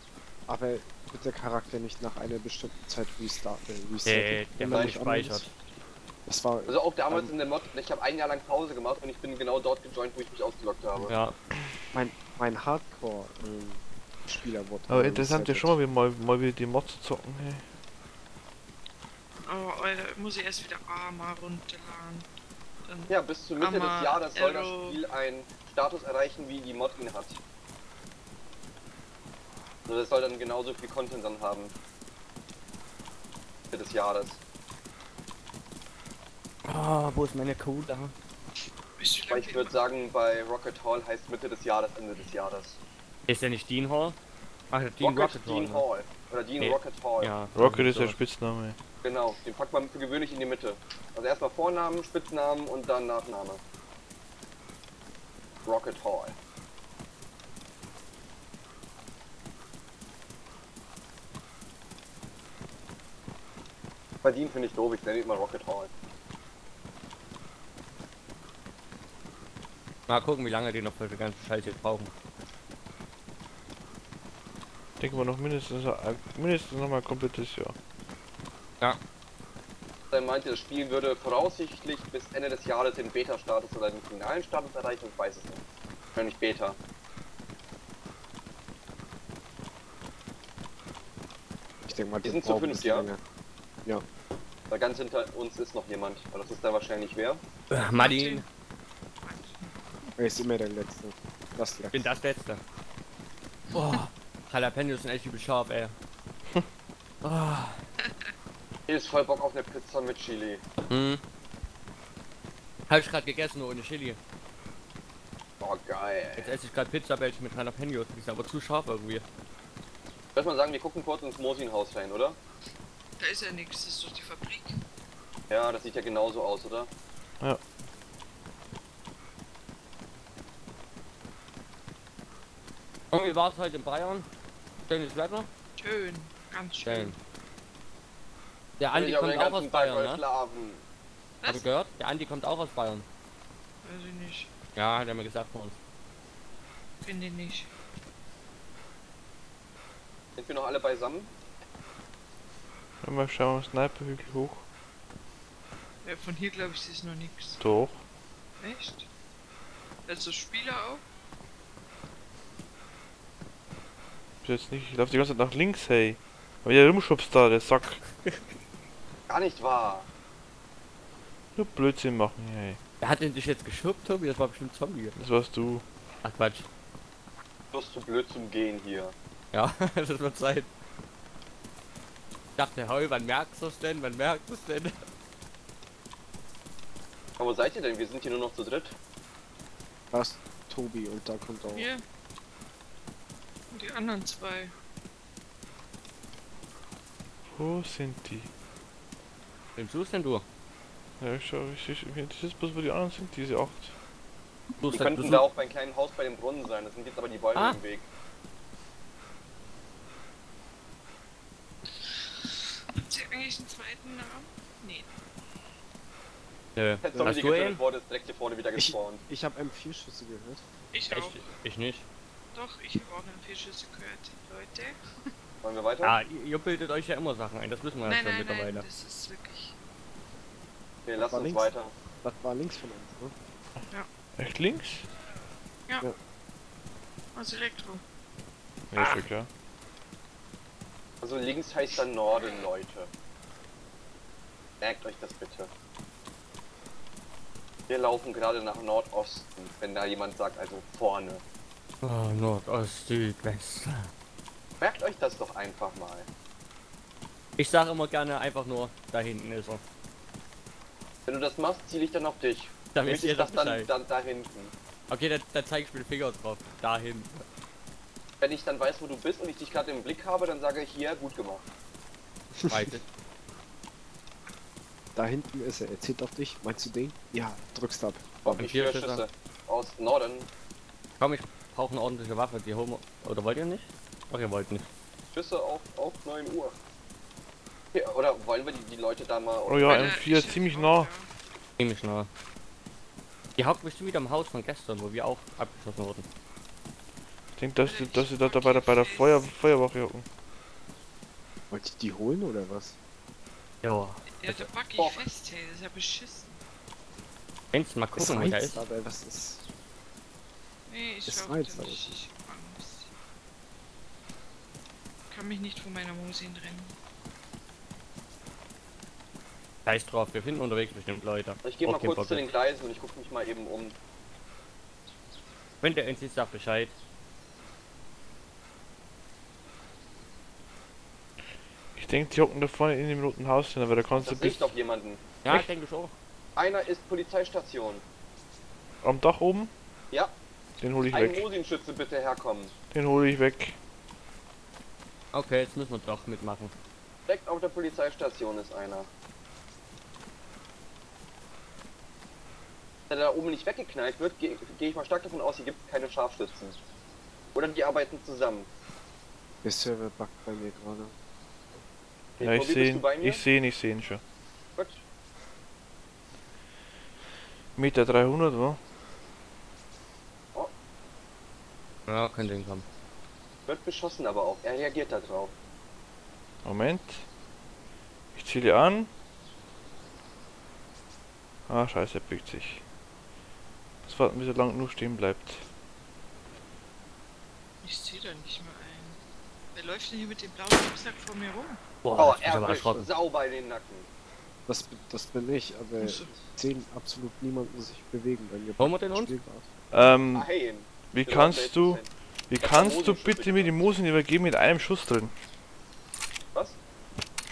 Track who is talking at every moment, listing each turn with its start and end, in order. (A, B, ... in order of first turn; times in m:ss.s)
0:00.5-0:05.5 A
0:04.1-0:05.5 B
0:04.7-0:05.0 C
0:06.3-0:07.3 A
0:06.7-0:11.1 C
0:11.1-0:11.4 B
0:11.9-0:15.8 A
0:14.9-0:17.6 D
0:19.5-0:22.3 E
0:22.9-0:25.0 E
0:23.1-0:27.4 C
0:29.9-0:31.7 C
0:33.7-0:34.4 C
0:36.6-0:38.1 B
0:39.0-0:39.8 E
0:39.3-0:42.8 C
0:43.3-0:44.2 B
0:44.7-0:45.8 B
0:45.0-0:47.4 C
0:46.6-0:48.2 B
0:47.6-0:48.8 D
0:49.0-0:53.6 C
0:55.6-0:56.4 C
1:04.2-1:05.9 C
1:10.1-1:12.1 B
1:15.0-1:17.8 D
1:20.1-1:25.6 C
1:26.2-1:26.8 C
1:31.8-1:33.2 A
1:32.2-1:33.1 C
1:34.7-1:37.4 C
1:37.7-1:38.4 B
1:38.0-1:38.5 E
1:39.2-1:40.1 E
1:40.2-1:42.1 A
1:41.9-1:42.6 B
1:43.7-1:46.0 B
1:47.2-1:47.8 B
1:48.0-1:48.3 E
1:48.9-1:50.6 C
1:50.9-1:51.2 B
1:52.9-1:54.2 B
1:55.6-1:56.5 C
1:56.4-1:59.2 B
2:00.4-2:02.4 C
2:03.2-2:04.8 E
2:05.5-2:06.9 C
2:13.1-2:14.3 B
2:14.9-2:15.5 B
2:15.8-2:17.2 E
2:16.8-2:17.2 B
2:18.8-2:20.2 B
2:18.9-2:20.8 C
2:21.4-2:23.1 B
2:23.8-2:24.5 E
2:24.8-2:25.8 B
2:27.0-2:27.7 E
2:30.4-2:31.3 C
2:33.0-2:34.6 D
2:36.0-2:37.6 E
2:37.6-2:38.0 D
2:38.6-2:39.1 E
2:40.1-2:41.0 E
2:44.4-2:48.0 D
2:48.2-2:48.6 B
2:49.3-2:50.1 C
2:51.6-2:52.8 D
2:53.0-2:55.2 B
2:55.2-2:55.8 D
2:56.2-2:56.7 B
2:57.7-2:59.2 C
2:59.5-3:00.7 B
3:02.6-3:05.0 B
3:07.4-3:09.0 C
3:10.1-3:11.9 A
3:11.7-3:12.0 E
3:13.7-3:14.7 E
3:17.5-3:18.5 D
3:19.8-3:20.4 B
3:21.2-3:23.9 D
3:24.8-3:25.5 B
3:24.9-3:28.1 C
3:32.0-3:35.1 E
3:36.8-3:37.8 B
3:37.0-3:39.2 C
3:38.8-3:40.6 A
3:40.9-3:41.5 E
3:41.1-3:42.1 B
3:42.5-3:45.3 E
3:45.6-3:46.2 C
3:46.0-3:48.9 B
3:48.0-3:49.8 E
3:51.1-3:51.9 C
3:51.2-3:51.6 A
3:52.2-3:53.3 A
3:54.4-3:55.1 D
3:57.4-3:58.0 E
3:58.9-3:59.5 D
4:01.2-4:03.1 C
4:04.8-4:05.7 C
4:07.9-4:11.4 C
4:12.0-4:14.1 B
4:14.8-4:16.3 C
4:17.6-4:19.8 B
4:21.3-4:24.7 C
4:22.9-4:23.9 B
4:25.1-4:27.5 B
4:28.4-4:31.6 C
4:32.6-4:32.9 A
4:32.7-4:33.0 B
4:35.2-4:38.7 A
4:38.5-4:39.2 B
4:38.5-4:40.5 C
4:41.2-4:44.9 B
4:45.3-4:46.8 C
4:47.9-4:50.2 C
4:49.7-4:51.1 D
4:49.9-4:51.3 E
4:51.8-4:52.3 B
4:53.6-4:56.3 B
4:57.6-5:00.3 D
4:57.8-4:59.5 E
5:01.7-5:03.0 A
5:03.8-5:04.7 B
5:04.4-5:06.6 E
5:05.0-5:05.2 C
5:07.7-5:08.8 B
5:08.1-5:09.6 A
5:10.9-5:13.1 E
5:11.3-5:12.2 A
5:15.3-5:17.0 E
5:19.8-5:22.5 B
5:21.6-5:24.0 C
5:25.8-5:27.0 B
5:32.0-5:34.7 D
5:34.1-5:35.2 C
5:35.4-5:36.1 B
5:36.6-5:38.0 C
5:39.0-5:39.7 D
5:40.8-5:41.5 D
5:41.1-5:42.7 C
5:42.9-5:43.8 D
5:45.3-5:46.7 B
5:47.3-5:49.1 C
5:53.1-5:56.8 C
5:57.5-5:58.7 C
5:59.6-6:01.2 A
6:02.4-6:03.4 C
6:02.4-6:04.2 D
6:04.8-6:05.0 C
6:07.8-6:08.8 D
6:12.1-6:12.8 B
6:13.7-6:15.5 C
6:16.6-6:17.2 D
6:18.4-6:19.1 D
6:21.7-6:22.8 D
6:24.0-6:25.6 D
6:27.8-6:29.2 E
6:29.7-6:31.8 E
6:32.0-6:33.1 B
6:32.1-6:34.1 C
6:34.7-6:39.7 A
6:36.0-6:36.3 E
6:38.8-6:39.3 B
6:39.9-6:40.5 D
6:40.3-6:42.1 C
6:41.0-6:45.3 D
6:42.6-6:43.8 C